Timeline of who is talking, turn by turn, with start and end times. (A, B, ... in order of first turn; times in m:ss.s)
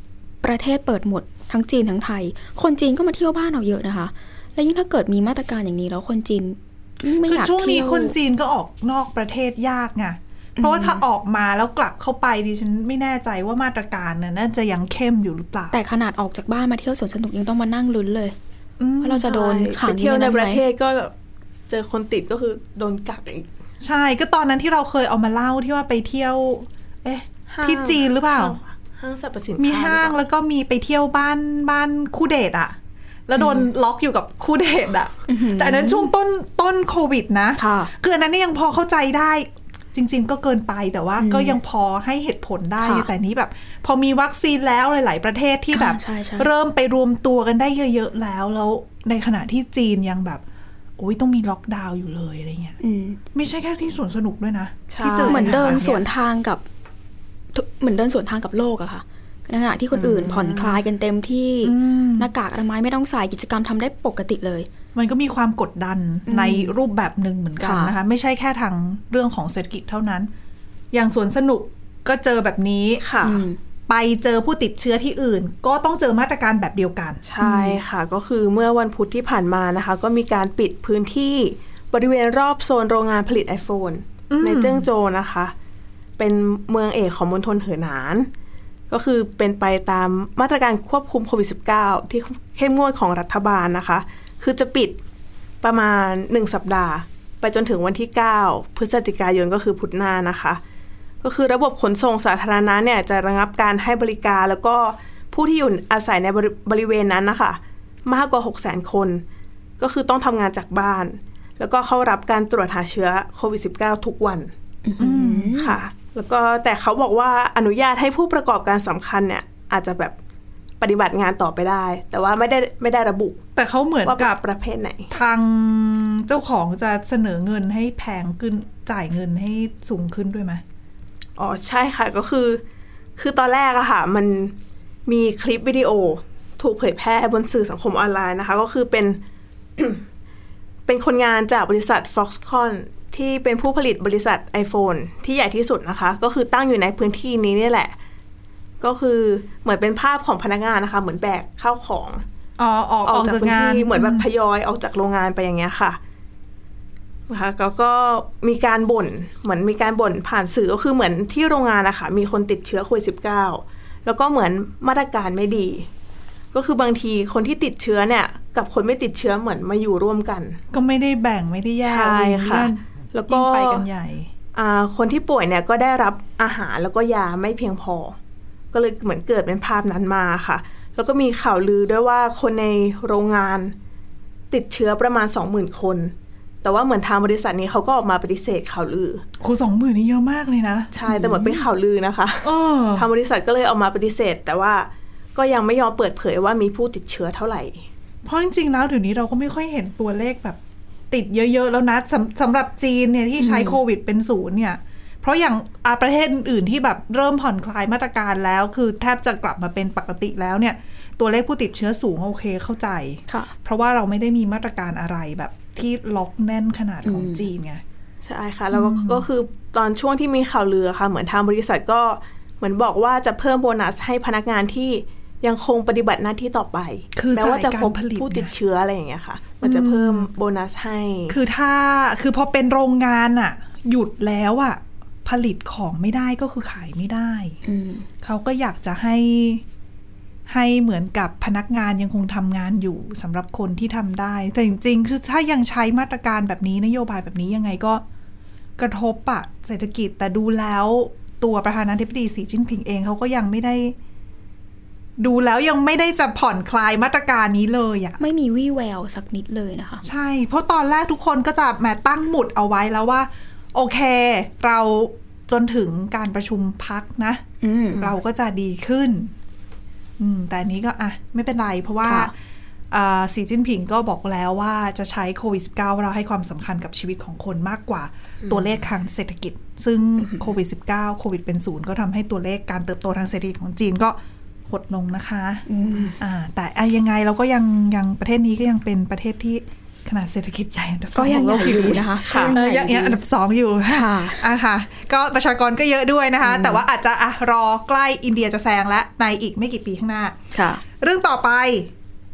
0:00.4-0:08.1 A
0:07.2-0:15.7 B
0:10.6-0:11.0 A
0:15.7-0:18.4 A
0:18.8-0:19.3 B
0:19.0-0:20.6 A
0:19.2-0:21.1 C
0:21.7-0:23.5 C
0:23.8-0:28.6 B
0:27.5-0:30.2 C
0:29.6-0:32.8 B
0:33.3-0:50.4 B
0:35.3-0:36.1 A
0:37.6-0:37.9 A
0:41.2-0:41.6 A
0:42.8-0:43.1 A
0:45.7-0:46.5 A
0:51.0-0:52.8 B
0:52.8-0:53.2 A
0:53.3-0:56.0 B
0:54.9-0:55.9 C
0:55.2-0:56.6 A
0:57.5-1:04.7 A
0:59.9-1:00.8 C
1:01.6-1:02.3 B
1:04.9-1:10.3 B
1:06.3-1:06.8 A
1:07.6-1:07.9 A
1:10.9-1:13.0 B
1:13.0-1:13.4 C
1:13.2-1:13.6 A
1:13.9-1:17.8 B
1:17.2-1:25.5 C
1:24.3-1:24.9 B
1:26.2-1:28.3 C
1:28.9-1:35.0 C
1:35.6-1:40.6 C
1:41.2-1:49.2 C
1:49.8-1:54.5 C
1:54.8-1:55.8 A
1:55.0-1:55.5 B
1:55.5-2:00.2 C
2:00.8-2:03.4 C
2:03.6-2:04.4 B
2:04.0-2:05.1 C
2:05.1-2:10.6 B
2:11.4-2:12.6 C
2:13.2-2:14.5 C
2:15.1-2:19.2 C
2:19.8-2:20.0 C
2:20.9-2:27.9 C
2:28.8-2:32.2 C
2:32.6-2:34.3 B
2:33.0-2:36.0 C
2:37.3-2:45.9 C
2:46.5-2:50.6 C
2:50.7-2:54.3 B
2:51.8-2:53.8 C
2:54.5-2:58.2 C
2:58.7-3:03.7 C
3:04.5-3:09.2 C
3:09.4-3:11.6 B
3:10.9-3:17.8 C
3:12.4-3:13.1 B
3:18.2-3:20.6 B
3:21.1-3:37.8 B
3:23.4-3:23.8 A
3:37.0-3:37.5 A
3:38.2-3:51.4 C
3:38.7-3:39.2 B
3:47.2-3:48.5 B
3:49.6-3:50.3 B
3:51.3-3:57.6 B
3:57.6-3:58.1 A
3:58.2-3:59.6 B
4:00.5-4:08.0 B
4:08.8-4:14.0 B
4:15.2-4:18.2 B
4:18.2-4:20.0 A
4:20.0-4:29.3 B
4:27.6-4:28.1 A
4:30.2-4:32.3 B
4:32.0-4:32.3 A
4:32.9-4:45.6 B
4:40.2-4:40.5 A
4:45.7-4:46.2 A
4:46.2-5:00.4 B
4:51.1-4:53.2 A
4:52.2-4:52.6 C
4:53.9-4:54.4 A
4:56.4-4:56.8 A
5:00.5-5:00.8 A
5:00.9-5:01.9 B